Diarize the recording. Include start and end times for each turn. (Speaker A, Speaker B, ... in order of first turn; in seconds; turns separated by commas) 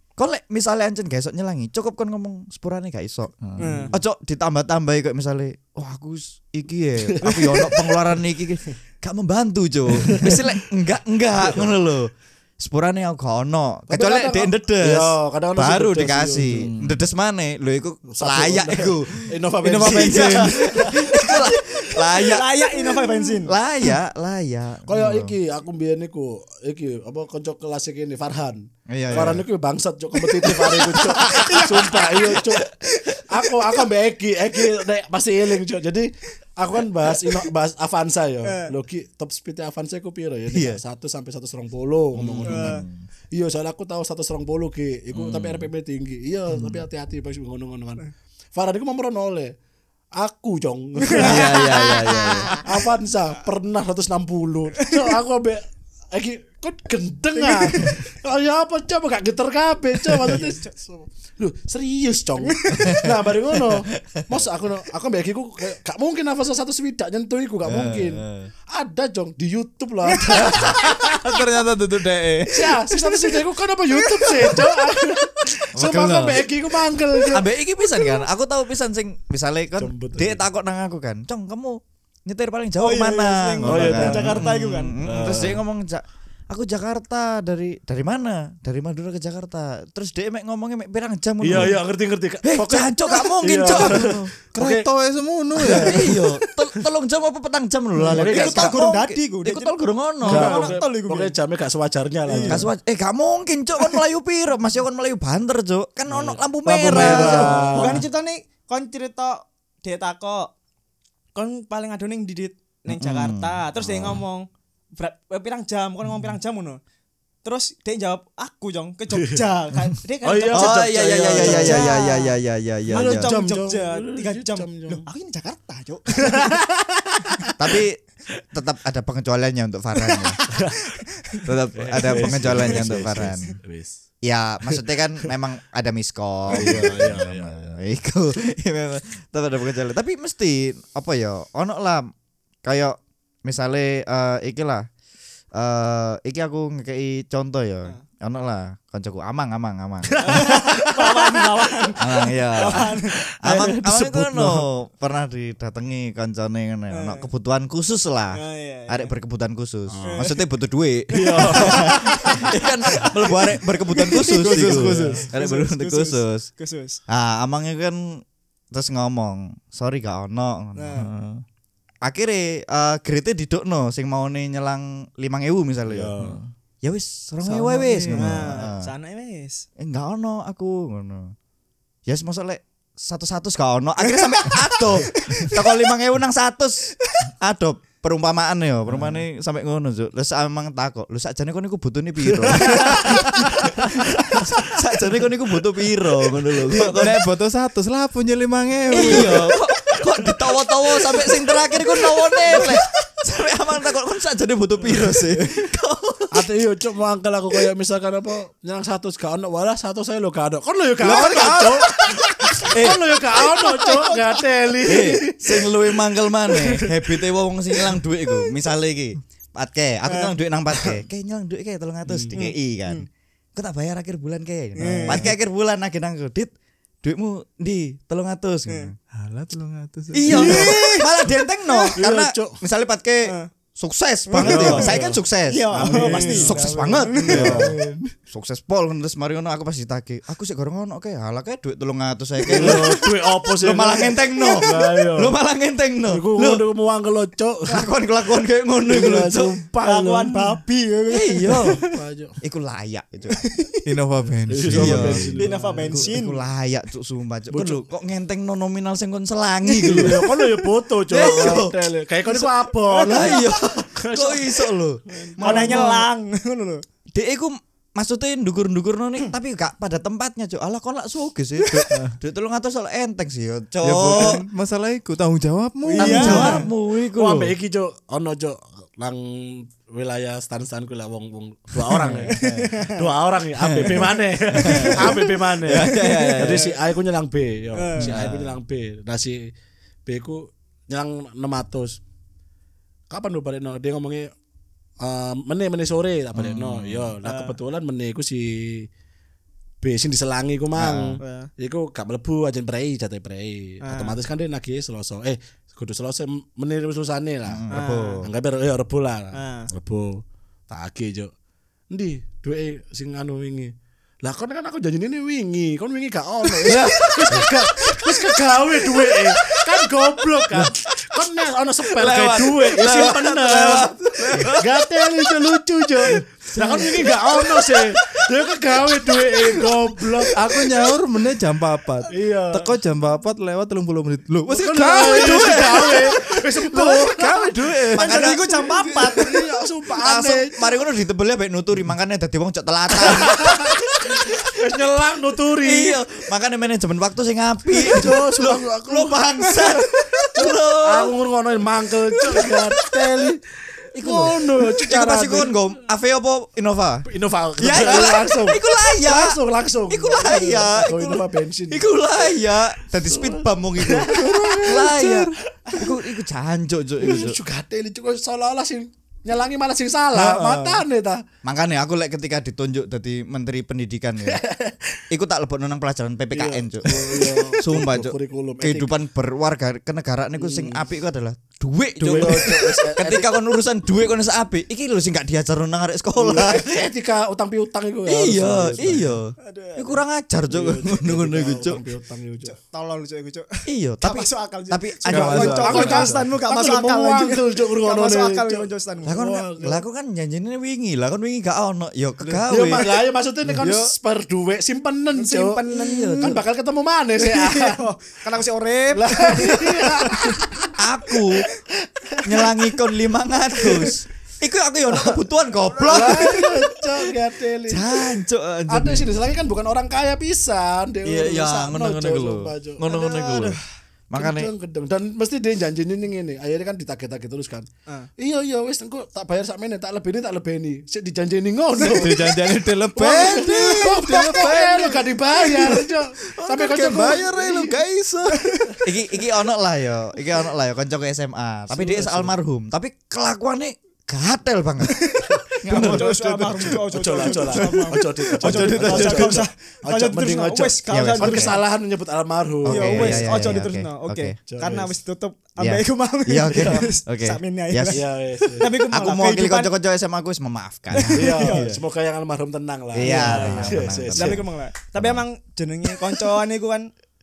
Speaker A: 0.2-3.4, Speaker B: 3.4-3.8, Speaker C: 3.6-3.9, Speaker D: 3.6-4.0, Speaker A: 3.9-25.3, Speaker C: 7.2-7.9, Speaker D: 9.9-10.3, Speaker D: 11.4-11.7, Speaker D: 13.9-16.7, Speaker B: 16.5-17.0, Speaker D: 18.1-21.5, Speaker C: 20.9-23.6, Speaker D: 24.9-49.5, Speaker A: 28.9-29.4, Speaker C: 30.4-33.3, Speaker A: 30.8-31.8, Speaker C: 37.0-37.5, Speaker C: 38.4-38.7, Speaker A: 40.5-40.8, Speaker A: 42.1-43.0, Speaker C: 42.5-42.8, Speaker A: 45.1-45.7, Speaker D: 50.1-51.6, Speaker C: 51.0-52.6, Speaker A: 51.1-52.5, Speaker D: 52.6-71.3, Speaker C: 57.4-58.0, Speaker C: 60.3-60.7, Speaker C: 62.5-63.1, Speaker B: 67.6-68.5, Speaker C: 70.0-70.8, Speaker B: 70.6-72.8, Speaker D: 72.5-77.5, Speaker C: 72.9-74.8, Speaker A: 75.8-76.5, Speaker A: 77.3-91.8, Speaker D: 79.8-80.4, Speaker C: 82.8-85.0, Speaker D: 83.6-84.4, Speaker D: 85.0-85.6, Speaker D: 91.4-94.9, Speaker A: 92.4-94.3, Speaker B: 94.5-96.2, Speaker D: 95.5-96.2, Speaker A: 95.8-100.8, Speaker D: 98.0-98.8, Speaker C: 98.1-101.3, Speaker D: 100.2-102.7, Speaker C: 102.2-102.7, Speaker A: 102.5-108.0, Speaker D: 106.1-108.0, Speaker C: 106.8-110.5, Speaker C: 111.3-116.8, Speaker A: 112.9-114.2, Speaker C: 117.4-122.3, Speaker D: 119.1-119.4, Speaker D: 120.2-122.0, Speaker A: 120.5-123.3, Speaker C: 122.9-126.5, Speaker D: 122.9-125.0, Speaker D: 126.2-127.8, Speaker A: 127.6-128.0, Speaker A: 128.5-130.4, Speaker D: 130.5-130.9, Speaker C: 130.9-131.5, Speaker A: 131.4-133.5, Speaker D: 131.8-134.0, Speaker C: 132.0-132.8, Speaker A: 134.2-142.1, Speaker D: 134.7-135.3, Speaker D: 136.5-137.8, Speaker A: 142.6-144.8, Speaker A: 145.5-150.5, Speaker D: 150.1-152.2, Speaker C: 150.2-153.2, Speaker A: 152.0-166.5, Speaker D: 152.7-154.6, Speaker C: 156.9-157.3, Speaker C: 158.3-159.1, Speaker D: 159.9-160.2, Speaker C: 160.0-160.4, Speaker D: 161.1-163.1, Speaker C: 161.4-163.1, Speaker C: 163.9-167.0, Speaker B: 164.4-165.3, Speaker A: 167.1-171.0, Speaker C: 170.8-171.1, Speaker B: 170.9-171.4, Speaker A: 172.0-176.2, Speaker D: 175.9-176.4, Speaker B: 176.2-176.5, Speaker A: 176.8-178.9, Speaker B: 177.4-178.4, Speaker C: 178.1-179.6, Speaker A: 179.8-181.3, Speaker A: 182.1-197.2, Speaker C: 184.0-185.7, Speaker B: 188.9-189.2, Speaker C: 192.7-193.2, Speaker B: 193.2-193.5, Speaker B: 196.9-199.5, Speaker A: 198.9-206.5, Speaker C: 201.1-202.8, Speaker B: 205.1-205.4, Speaker D: 206.3-215.9, Speaker A: 211.0-211.8, Speaker A: 212.6-213.0, Speaker C: 213.4-214.2, Speaker A: 214.8-223.0, Speaker C: 220.1-221.0, Speaker D: 222.1-222.3, Speaker C: 222.3-223.1, Speaker A: 223.6-226.5, Speaker C: 224.8-225.2, Speaker A: 227.0-229.0, Speaker B: 229.1-230.6, Speaker A: 230.1-237.7, Speaker C: 230.3-231.9, Speaker D: 230.3-231.0, Speaker D: 231.9-232.6, Speaker C: 234.3-237.6, Speaker D: 234.4-235.2, Speaker B: 234.6-234.8, Speaker D: 235.7-236.5, Speaker B: 235.9-238.1, Speaker D: 237.3-237.7, Speaker A: 238.3-246.6, Speaker D: 242.4-245.3, Speaker C: 242.5-243.0, Speaker C: 244.4-244.9, Speaker D: 246.1-247.9, Speaker A: 247.7-249.5, Speaker D: 248.9-250.6, Speaker C: 249.8-251.9, Speaker A: 251.1-251.8, Speaker D: 251.6-252.4, Speaker A: 252.4-253.4, Speaker C: 253.3-253.8, Speaker B: 253.8-255.3, Speaker D: 254.5-256.2, Speaker A: 254.7-260.4, Speaker C: 255.3-256.4, Speaker D: 257.5-257.9, Speaker D: 259.8-265.9, Speaker C: 259.8-260.1, Speaker A: 261.1-262.5, Speaker C: 261.1-261.6, Speaker C: 262.8-263.5, Speaker A: 263.0-266.1, Speaker C: 265.4-266.8, Speaker A: 267.1-274.4, Speaker B: 273.8-276.7, Speaker C: 275.9-276.6, Speaker A: 275.9-277.5, Speaker D: 277.0-289.5, Speaker A: 281.9-282.5, Speaker C: 282.3-283.0, Speaker A: 283.6-286.7, Speaker C: 284.6-285.2, Speaker C: 285.7-286.8, Speaker C: 287.8-288.1, Speaker A: 288.1-288.5, Speaker D: 290.1-292.0, Speaker D: 293.1-294.3, Speaker D: 295.0-298.9, Speaker A: 296.4-297.0, Speaker C: 297.2-297.6, Speaker D: 299.8-307.7, Speaker A: 300.7-301.2, Speaker C: 301.2-301.5, Speaker C: 303.8-304.2, Speaker A: 307.4-308.3, Speaker C: 307.7-308.2, Speaker D: 308.2-311.3, Speaker C: 309.3-309.7, Speaker D: 311.9-330.8, Speaker A: 321.9-324.9, Speaker B: 322.0-324.5, Speaker A: 326.1-327.9, Speaker B: 329.6-336.4, Speaker D: 332.1-332.8, Speaker D: 334.5-338.0, Speaker A: 335.3-338.4, Speaker B: 337.4-337.8, Speaker C: 337.9-339.4, Speaker D: 338.9-340.6, Speaker A: 339.9-344.6, Speaker D: 342.9-346.0, Speaker A: 345.5-351.1, Speaker D: 347.7-353.4, Speaker A: 352.1-353.3, Speaker D: 353.9-355.6, Speaker A: 354.0-357.0, Speaker D: 357.1-361.8, Speaker A: 357.6-367.4, Speaker D: 363.0-365.9, Speaker B: 364.1-365.2, Speaker D: 367.0-371.2, Speaker B: 370.1-370.8, Speaker A: 371.4-374.4, Speaker D: 374.2-375.0, Speaker A: 375.1-386.7, Speaker D: 376.3-378.9, Speaker D: 380.4-380.8, Speaker D: 382.0-383.4, Speaker D: 386.1-389.2, Speaker A: 388.1-391.8, Speaker C: 389.4-390.0, Speaker D: 390.5-392.6, Speaker C: 392.4-399.2, Speaker A: 393.7-396.1, Speaker B: 395.1-396.2, Speaker D: 395.7-399.8, Speaker A: 399.0-403.0, Speaker D: 402.4-405.6, Speaker B: 403.5-403.9, Speaker C: 405.1-406.4, Speaker A: 405.7-406.4, Speaker D: 406.2-407.8, Speaker C: 407.2-410.5, Speaker D: 408.9-410.7, Speaker A: 410.8-411.4, Speaker C: 412.1-412.5, Speaker A: 412.2-416.5, Speaker C: 415.8-416.5, Speaker D: 415.8-418.2, Speaker A: 417.7-419.1, Speaker D: 418.7-422.8, Speaker A: 421.0-424.5, Speaker C: 422.9-423.6, Speaker D: 424.1-437.8, Speaker B: 431.8-438.6, Speaker C: 438.3-438.8, Speaker A: 438.8-445.0, Speaker D: 441.7-442.3, Speaker C: 444.8-451.6, Speaker D: 445.3-453.4, Speaker A: 445.7-446.1, Speaker A: 447.4-449.4, Speaker A: 450.9-451.6, Speaker A: 452.6-454.4, Speaker C: 452.7-459.7, Speaker D: 454.5-454.9, Speaker A: 455.6-458.0, Speaker D: 456.5-456.9, Speaker D: 457.9-458.7, Speaker A: 458.6-461.8, Speaker C: 460.9-461.7, Speaker D: 461.1-464.4, Speaker A: 462.9-464.4, Speaker C: 463.0-466.9, Speaker A: 464.9-465.2